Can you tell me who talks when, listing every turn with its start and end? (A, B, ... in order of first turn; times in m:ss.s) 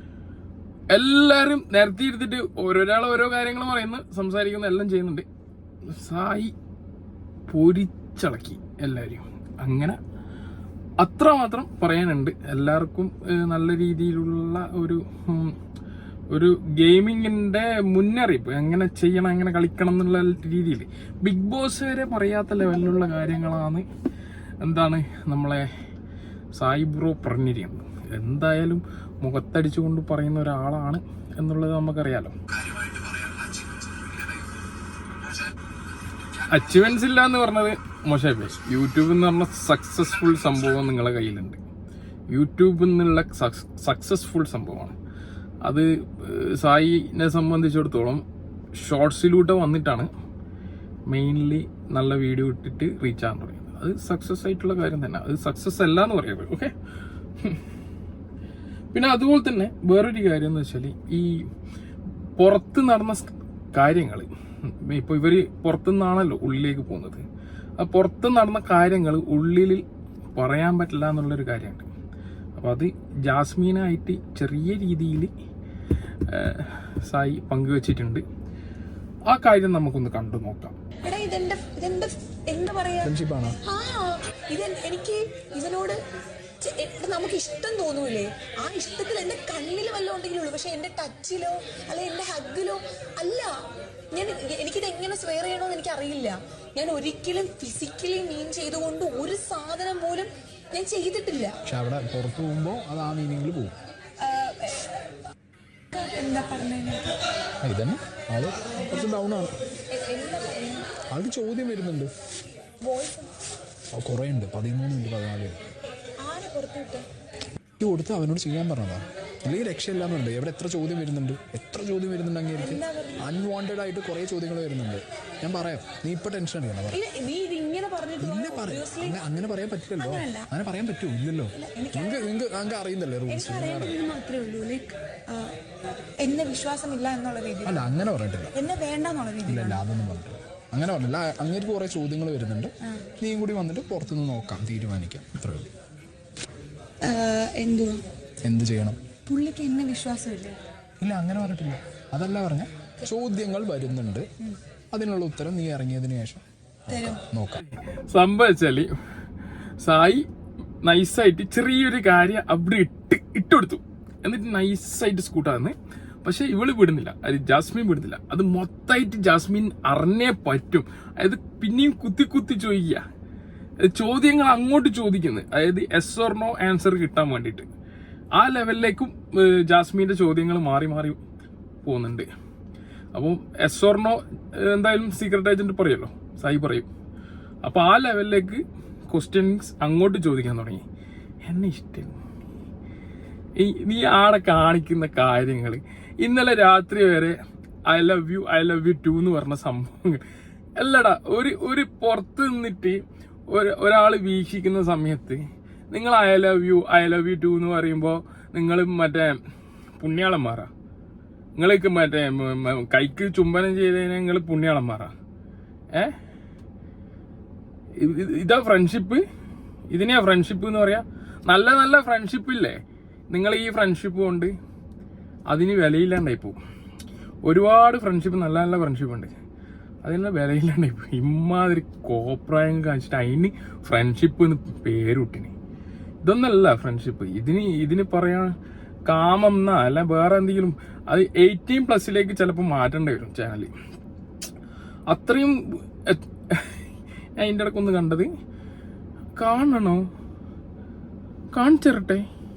0:00.9-0:05.3 A
0:05.9-0:06.5 A
0:07.5-0:10.0 A
0:11.0-0:15.6 A
0:16.3-0:23.9 A
0:24.6-0:25.7 A
0:26.5-0:32.4 A
0:36.5-0:41.6 A
0:42.3-0:45.0 A
0:45.6-0:48.2 A
0:48.8-0:50.1 A
0:51.1-0:56.7 A
0:58.9-1:01.3 A
1:02.4-1:07.2 A
1:07.8-1:09.8 A
1:10.4-1:11.9 A
1:12.6-1:15.3 A
1:16.3-1:18.2 A
1:19.3-1:20.8 A
1:21.0-1:26.0 B
1:23.0-1:23.6 C
1:26.6-1:33.6 B
1:34.1-1:41.6 B
1:41.7-1:43.8 C
1:44.2-1:44.9 B
1:45.9-1:47.2 B
1:47.6-1:49.5 C
1:49.9-1:50.9 B
1:51.1-1:52.1 C
1:52.8-1:53.3 B
1:54.0-1:55.6 C
1:56.2-1:57.1 B
1:57.8-2:07.0 C
2:02.6-2:03.3 B
2:06.9-2:09.2 B
2:08.2-2:14.0 C
2:10.0-2:10.5 B
2:11.6-2:12.3 B
2:13.3-2:15.5 B
2:16.2-2:17.9 B
2:17.6-2:18.6 C
2:18.6-2:19.8 B
2:19.4-2:25.7 C
2:27.0-2:28.0 B
2:28.4-2:29.0 C
2:29.3-2:30.6 B
2:31.0-2:34.3 C
2:34.9-2:37.6 C
2:36.9-2:37.2 B
2:38.1-2:38.9 A
2:39.8-2:40.3 A
2:40.8-2:53.0 A
2:53.8-2:57.7 A
2:58.4-3:01.2 A
3:01.8-3:02.3 A
3:03.1-3:06.9 A
3:07.6-3:10.8 A
3:11.5-3:12.2 A
3:13.6-3:17.4 A
3:17.9-3:20.2 A
3:20.8-3:29.4 A
3:30.0-3:30.7 A
3:31.6-3:35.1 A
3:38.0-3:39.2 A
3:39.9-3:42.8 A
3:43.3-3:44.5 A
3:45.5-3:46.6 A
3:47.4-3:49.3 A
3:50.0-3:55.5 A
3:56.2-3:58.5 A
3:59.1-4:03.7 A
4:05.1-4:06.8 A
4:07.4-4:08.3 A
4:09.4-4:10.1 A
4:11.5-4:12.2 A